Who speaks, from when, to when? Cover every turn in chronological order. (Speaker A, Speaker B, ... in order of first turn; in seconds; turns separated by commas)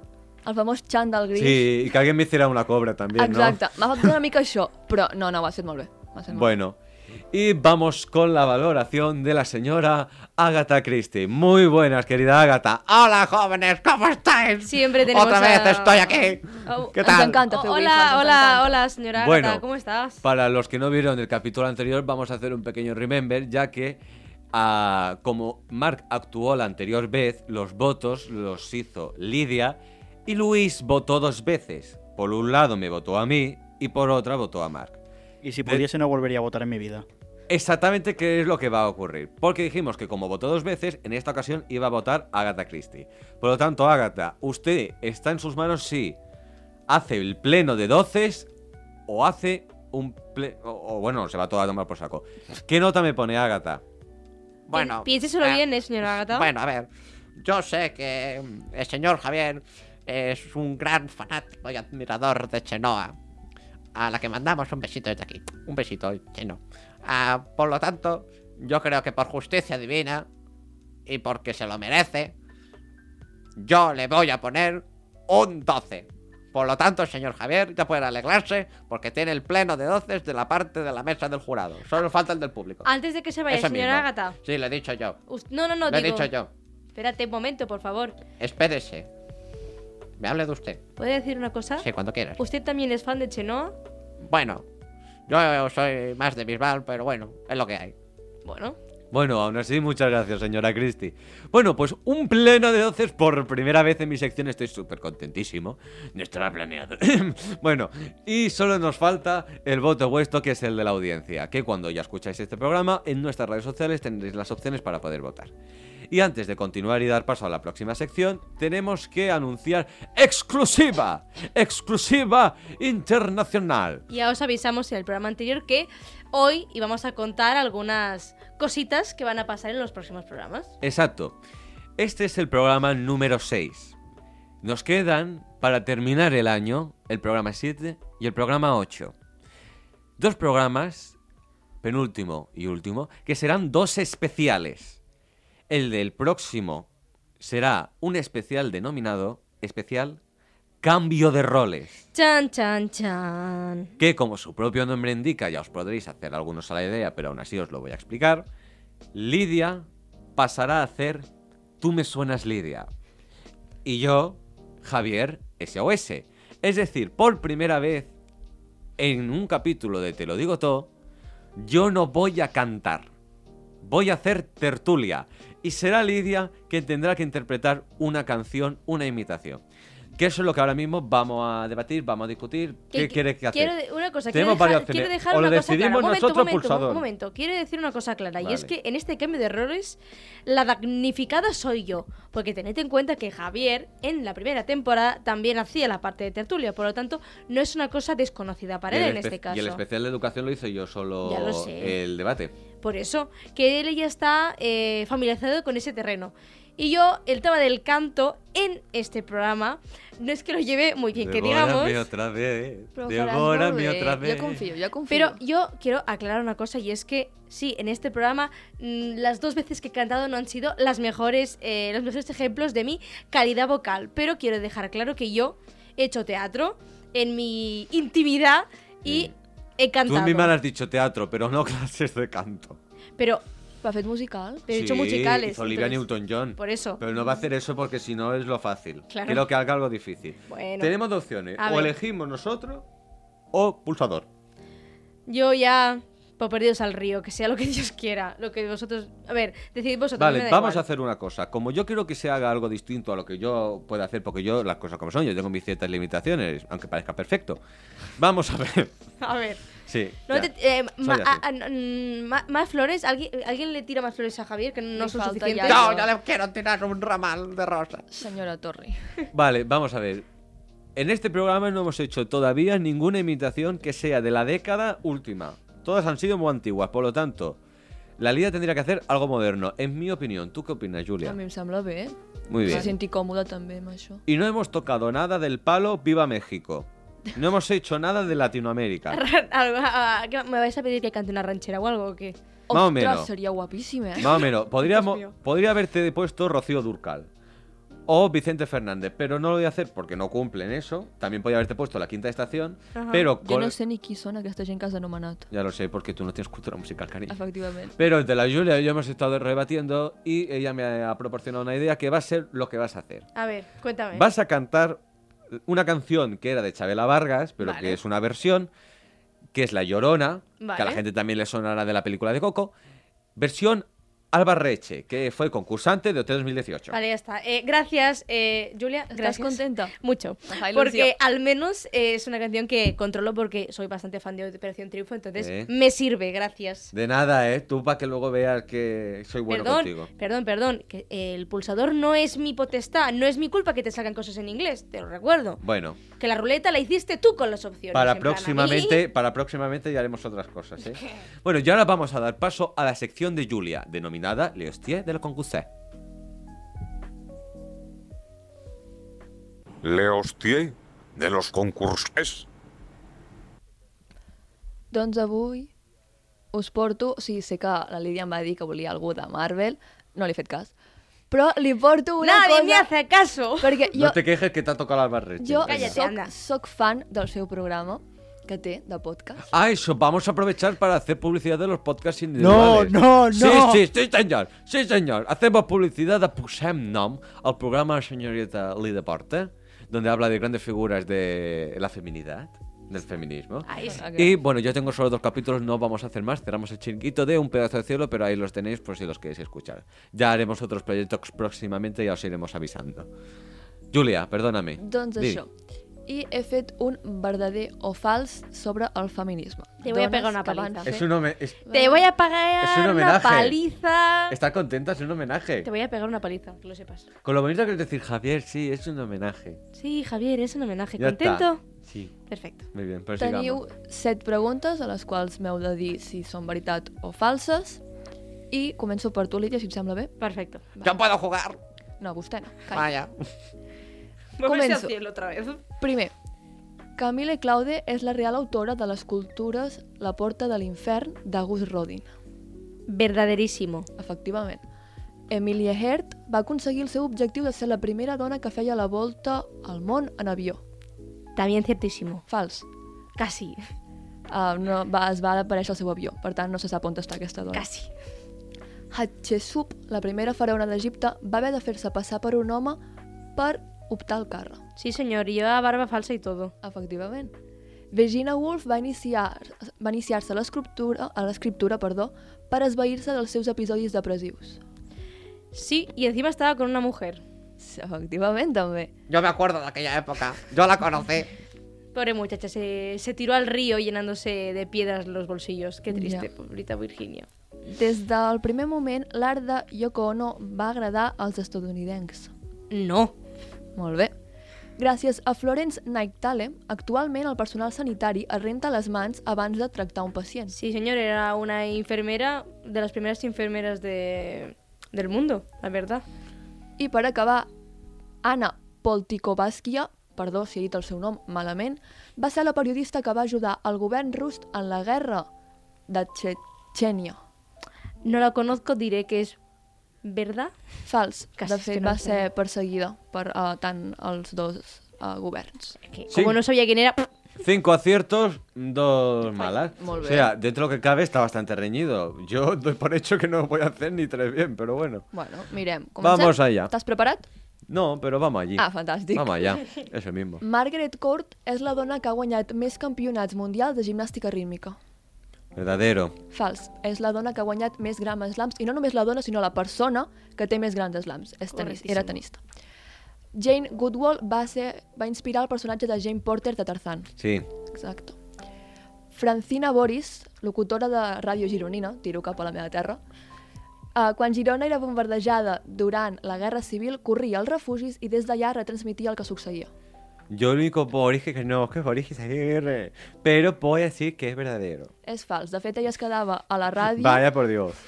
Speaker A: 0.5-1.8, Speaker B: 1.4-4.1, Speaker A: 3.2-6.5, Speaker B: 6.3-6.8, Speaker B: 7.3-12.9, Speaker C: 12.9-17.4, Speaker D: 14.7-20.2, Speaker A: 17.0-18.8, Speaker B: 19.2-19.6, Speaker B: 20.2-24.0, Speaker B: 24.5-35.0, Speaker E: 35.4-37.0, Speaker B: 37.5-46.2, Speaker B: 46.9-48.5, Speaker B: 49.1-53.8, Speaker C: 54.7-55.6, Speaker D: 54.7-56.5, Speaker C: 56.2-63.1, Speaker C: 64.0-70.3, Speaker C: 71.1-72.3, Speaker C: 73.6-82.9, Speaker D: 82.8-84.4, Speaker C: 83.5-85.2, Speaker D: 85.3-86.3, Speaker C: 85.9-86.5, Speaker D: 87.0-88.2, Speaker C: 88.4-89.1, Speaker C: 90.2-90.8, Speaker D: 91.0-91.9, Speaker C: 91.8-92.4, Speaker D: 92.4-93.8, Speaker C: 94.2-94.7, Speaker C: 95.3-97.9, Speaker D: 98.5-98.8, Speaker B: 99.1-115.5, Speaker B: 116.1-124.0, Speaker D: 124.1-130.7, Speaker B: 130.8-131.4, Speaker B: 132.0-133.9, Speaker B: 134.6-139.2, Speaker B: 140.2-141.2, Speaker B: 141.8-145.0, Speaker B: 145.7-146.9, Speaker B: 147.4-150.2, Speaker B: 150.8-152.0, Speaker D: 152.1-153.9, Speaker B: 154.0-158.5, Speaker B: 159.1-161.3, Speaker B: 161.8-162.9, Speaker B: 163.8-168.1, Speaker B: 169.0-170.9, Speaker B: 171.6-173.1, Speaker B: 173.8-179.6, Speaker B: 180.2-183.7, Speaker D: 182.9-199.8, Speaker B: 184.3-187.1, Speaker B: 188.4-188.7, Speaker B: 198.9-202.5, Speaker D: 201.2-202.0, Speaker D: 202.8-212.0, Speaker B: 211.2-214.6, Speaker A: 212.9-215.4, Speaker D: 215.1-230.5, Speaker B: 229.1-229.3, Speaker B: 230.1-232.8, Speaker D: 233.2-233.4, Speaker A: 233.8-234.7, Speaker D: 234.7-236.1, Speaker B: 234.7-242.9, Speaker D: 236.6-237.0, Speaker D: 239.1-239.5, Speaker D: 240.5-240.9, Speaker D: 241.6-241.9, Speaker B: 243.5-244.3, Speaker D: 245.3-250.8, Speaker B: 250.2-257.6, Speaker B: 258.2-258.9, Speaker D: 259.2-259.6, Speaker B: 259.9-261.4, Speaker D: 260.3-266.1, Speaker A: 265.0-266.1, Speaker C: 265.6-268.0, Speaker A: 268.1-269.0, Speaker B: 269.3-270.3, Speaker B: 270.9-277.6, Speaker B: 278.2-281.4, Speaker A: 281.2-284.2, Speaker B: 282.5-282.9, Speaker B: 284.3-289.2, Speaker D: 289.1-292.4, Speaker A: 292.7-294.3, Speaker B: 292.7-293.3, Speaker B: 294.2-297.3, Speaker D: 294.9-295.3, Speaker B: 298.1-303.8, Speaker D: 302.9-303.3, Speaker A: 303.4-305.5, Speaker B: 305.5-307.4, Speaker A: 307.3-308.0, Speaker B: 308.0-313.3, Speaker D: 313.4-314.3, Speaker B: 314.1-315.0, Speaker B: 315.6-318.7, Speaker D: 317.6-318.0, Speaker B: 319.5-322.7, Speaker D: 320.6-321.0, Speaker B: 323.4-327.0, Speaker D: 326.9-336.9, Speaker A: 329.1-329.9, Speaker A: 330.5-331.1, Speaker B: 335.4-335.7, Speaker B: 336.9-340.1, Speaker D: 339.5-345.6, Speaker B: 345.6-346.0, Speaker D: 346.2-349.0, Speaker B: 347.9-355.7, Speaker F: 359.8-362.5, Speaker A: 364.9-365.7, Speaker A: 366.5-370.7, Speaker A: 371.3-372.9, Speaker D: 372.2-373.9, Speaker A: 373.6-374.2, Speaker B: 373.9-376.0, Speaker A: 375.4-379.5, Speaker D: 375.7-376.3, Speaker B: 379.5-403.1, Speaker E: 382.4-383.8, Speaker D: 393.7-394.0, Speaker A: 393.9-394.4, Speaker B: 403.9-405.4, Speaker A: 404.8-405.5, Speaker A: 406.1-411.1, Speaker D: 409.8-411.0, Speaker B: 410.9-411.6, Speaker A: 411.7-412.1, Speaker D: 411.7-414.4, Speaker B: 412.6-413.6, Speaker B: 414.3-415.7, Speaker D: 415.6-417.1, Speaker B: 417.2-419.6, Speaker D: 419.8-421.6, Speaker B: 421.0-422.1, Speaker D: 422.3-422.7, Speaker B: 422.7-423.6, Speaker A: 423.2-427.8, Speaker A: 428.5-430.1, Speaker D: 430.2-430.7, Speaker C: 430.8-431.6, Speaker A: 432.0-432.9, Speaker C: 432.7-433.1, Speaker D: 434.4-435.6, Speaker A: 434.4-434.9, Speaker A: 435.8-436.1, Speaker A: 437.0-442.1, Speaker D: 442.9-443.9, Speaker A: 444.0-444.6, Speaker A: 445.3-450.6, Speaker D: 451.4-452.2, Speaker A: 452.3-452.7, Speaker D: 453.2-453.6, Speaker A: 454.3-457.7, Speaker D: 457.5-457.9, Speaker A: 458.9-462.8, Speaker A: 463.4-464.6, Speaker D: 464.8-466.5, Speaker A: 466.6-467.3, Speaker A: 467.9-474.6, Speaker D: 475.5-477.2, Speaker A: 477.6-478.9, Speaker C: 479.1-481.3, Speaker D: 481.9-487.3, Speaker A: 485.9-486.3, Speaker A: 487.7-492.3, Speaker D: 492.7-493.1, Speaker A: 493.8-494.1, Speaker A: 494.8-500.6, Speaker D: 500.5-506.0, Speaker A: 506.8-507.5, Speaker A: 508.2-515.3, Speaker A: 515.9-517.2, Speaker D: 518.0-519.4, Speaker D: 520.0-520.5, Speaker A: 520.9-525.8, Speaker D: 521.4-522.2, Speaker D: 525.9-527.1, Speaker B: 526.1-526.4, Speaker B: 527.4-535.1, Speaker A: 529.8-530.3, Speaker A: 535.1-537.3, Speaker B: 536.0-536.7, Speaker B: 537.7-540.4, Speaker A: 538.6-539.5, Speaker A: 540.4-544.8, Speaker B: 545.5-546.1, Speaker A: 546.3-552.4, Speaker D: 551.5-552.2, Speaker A: 553.3-557.1, Speaker B: 557.2-557.5, Speaker A: 557.7-558.2, Speaker A: 559.1-563.0, Speaker A: 564.0-569.7, Speaker B: 570.3-574.9, Speaker A: 575.1-577.2, Speaker B: 576.9-577.8